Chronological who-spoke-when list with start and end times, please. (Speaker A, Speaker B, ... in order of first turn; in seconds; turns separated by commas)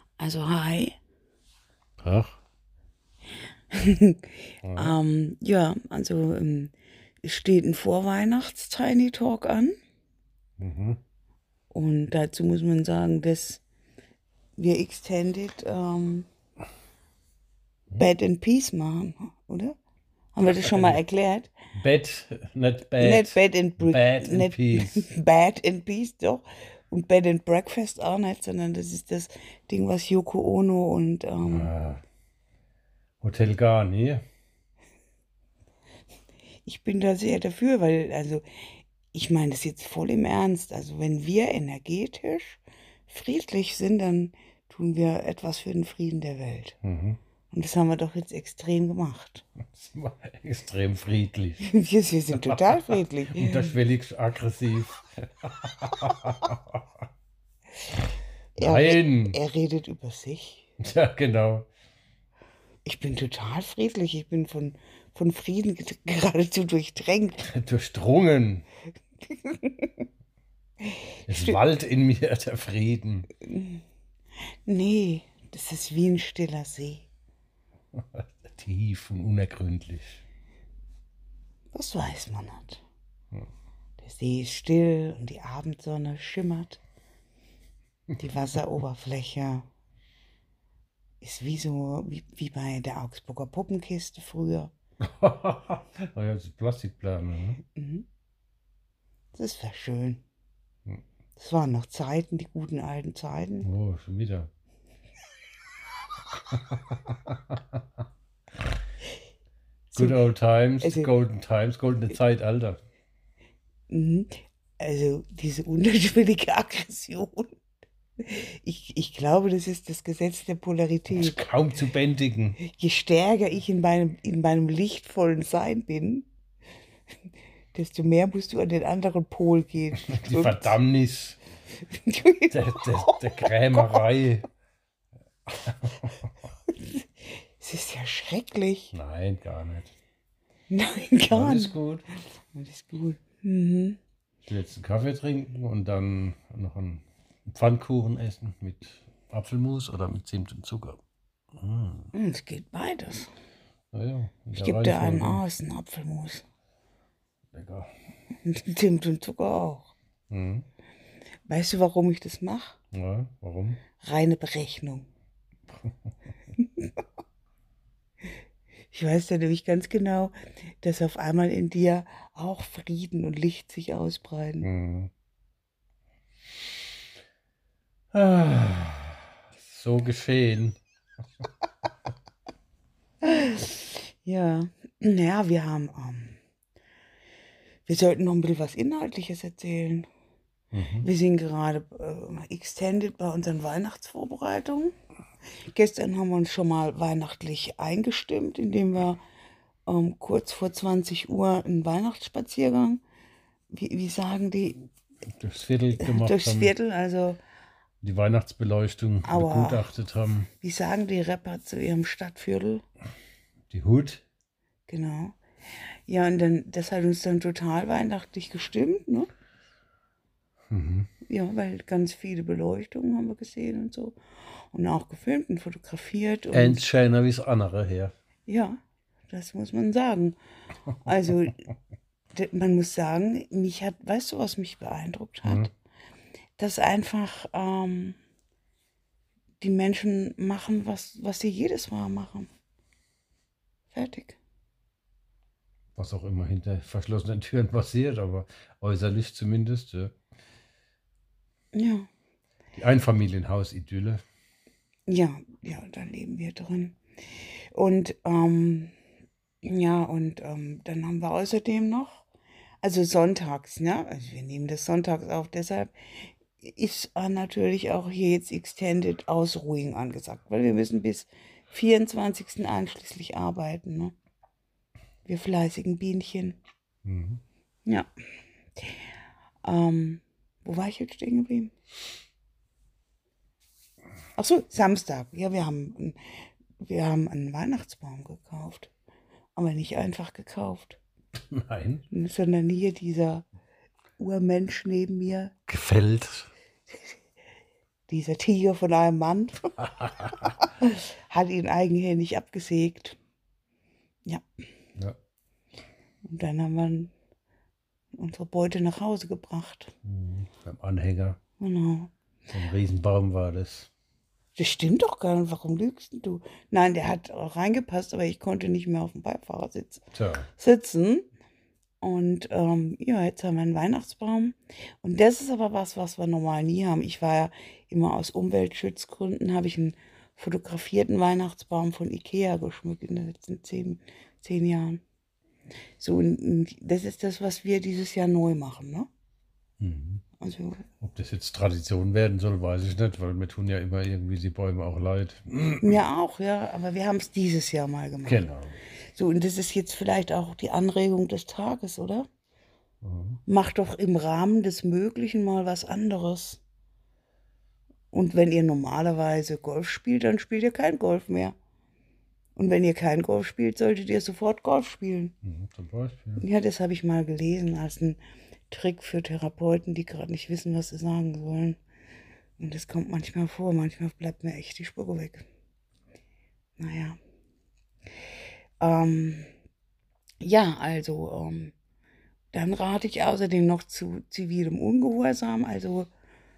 Speaker A: 0.2-1.0, Speaker B: 2.0-2.4, Speaker A: 3.7-6.7, Speaker B: 4.6-5.0, Speaker A: 7.2-9.8, Speaker B: 10.6-11.0, Speaker A: 11.7-13.6, Speaker A: 14.6-16.3, Speaker A: 18.0-19.8, Speaker A: 20.4-21.5, Speaker B: 20.5-21.0, Speaker B: 21.8-25.1, Speaker A: 23.0-31.7, Speaker B: 31.5-32.0, Speaker B: 33.2-34.2, Speaker A: 36.6-46.8, Speaker B: 46.8-47.2, Speaker A: 47.5-49.5, Speaker B: 49.7-51.6, Speaker A: 51.6-53.7, Speaker B: 53.4-56.9, Speaker A: 58.6-60.7, Speaker B: 58.6-59.4, Speaker B: 60.8-61.7, Speaker A: 62.9-67.5, Speaker B: 67.4-68.7, Speaker A: 69.3-70.0, Speaker B: 71.3-73.3, Speaker A: 71.3-71.6, Speaker A: 73.4-73.8, Speaker A: 74.7-77.1, Speaker B: 77.9-80.2, Speaker A: 81.7-82.8, Speaker A: 84.0-86.8, Speaker A: 88.2-89.7, Speaker A: 91.2-94.7, Speaker B: 95.0-97.6, Speaker A: 97.8-98.0, Speaker A: 99.3-100.2, Speaker A: 101.4-103.7, Speaker B: 103.6-104.5, Speaker B: 106.5-107.8, Speaker A: 109.9-110.3, Speaker B: 110.0-112.8, Speaker A: 110.8-111.1, Speaker A: 113.9-117.5, Speaker A: 118.2-121.4, Speaker B: 121.1-122.6, Speaker A: 122.6-126.3, Speaker A: 127.7-130.8, Speaker B: 130.1-131.4, Speaker A: 131.8-134.0, Speaker B: 132.5-134.5, Speaker B: 135.6-136.1, Speaker A: 136.7-138.9, Speaker B: 138.9-139.9, Speaker A: 140.7-141.8, Speaker B: 141.3-142.1, Speaker A: 142.5-144.0, Speaker B: 144.5-151.0, Speaker B: 151.5-152.1, Speaker A: 152.1-153.3, Speaker B: 153.9-155.4, Speaker A: 154.5-156.4, Speaker B: 157.5-157.9, Speaker A: 158.3-159.9, Speaker B: 160.3-160.7, Speaker A: 161.5-162.8, Speaker B: 162.9-163.8, Speaker A: 164.0-165.1, Speaker A: 166.6-167.0, Speaker A: 168.9-174.7, Speaker B: 174.6-175.1, Speaker B: 178.1-180.8, Speaker A: 183.2-186.4, Speaker A: 187.9-190.1, Speaker B: 190.7-191.1, Speaker A: 191.0-194.9, Speaker A: 195.6-199.2, Speaker A: 199.9-203.0, Speaker A: 203.7-204.9, Speaker B: 205.3-206.7, Speaker A: 206.0-207.4, Speaker B: 208.0-210.5, Speaker A: 209.2-209.9, Speaker A: 210.6-212.8, Speaker B: 213.7-214.2, Speaker A: 214.9-215.4, Speaker A: 216.1-219.3, Speaker B: 220.7-221.1, Speaker A: 221.2-224.2, Speaker A: 224.7-226.8, Speaker B: 226.5-228.1, Speaker A: 228.5-228.8, Speaker A: 229.3-230.4, Speaker A: 231.0-231.7, Speaker A: 232.3-235.7, Speaker A: 236.6-238.2, Speaker A: 239.6-242.5, Speaker A: 243.9-244.4, Speaker B: 246.0-250.1, Speaker A: 251.7-252.1, Speaker B: 252.8-254.2, Speaker A: 255.1-258.9, Speaker A: 259.6-262.3, Speaker A: 262.8-274.1, Speaker A: 275.2-276.6, Speaker B: 277.1-277.4, Speaker A: 278.8-279.1, Speaker A: 279.6-281.7, Speaker A: 284.4-288.9, Speaker A: 289.6-291.0, Speaker B: 291.5-292.1, Speaker A: 292.1-293.4, Speaker A: 294.2-295.5, Speaker B: 295.7-296.5, Speaker A: 298.1-303.2, Speaker B: 300.0-300.3, Speaker A: 306.3-307.1, Speaker A: 308.1-309.9, Speaker B: 310.1-311.4, Speaker A: 311.6-312.1, Speaker B: 312.5-313.9, Speaker A: 314.6-320.1, Speaker B: 320.1-320.5, Speaker A: 320.6-321.2, Speaker A: 322.0-335.0, Speaker A: 336.0-339.1, Speaker B: 339.8-340.2, Speaker A: 340.4-340.9, Speaker B: 341.0-346.0, Speaker A: 345.8-348.4, Speaker B: 348.2-348.8, Speaker A: 349.1-352.3, Speaker B: 353.0-353.4, Speaker A: 353.5-356.6, Speaker A: 358.1-361.6, Speaker A: 362.6-365.3, Speaker B: 365.4-366.4, Speaker A: 366.4-368.2, Speaker A: 368.7-371.8, Speaker A: 372.6-375.5, Speaker A: 376.8-377.2, Speaker A: 378.8-379.5, Speaker A: 380.4-381.7, Speaker A: 382.5-386.1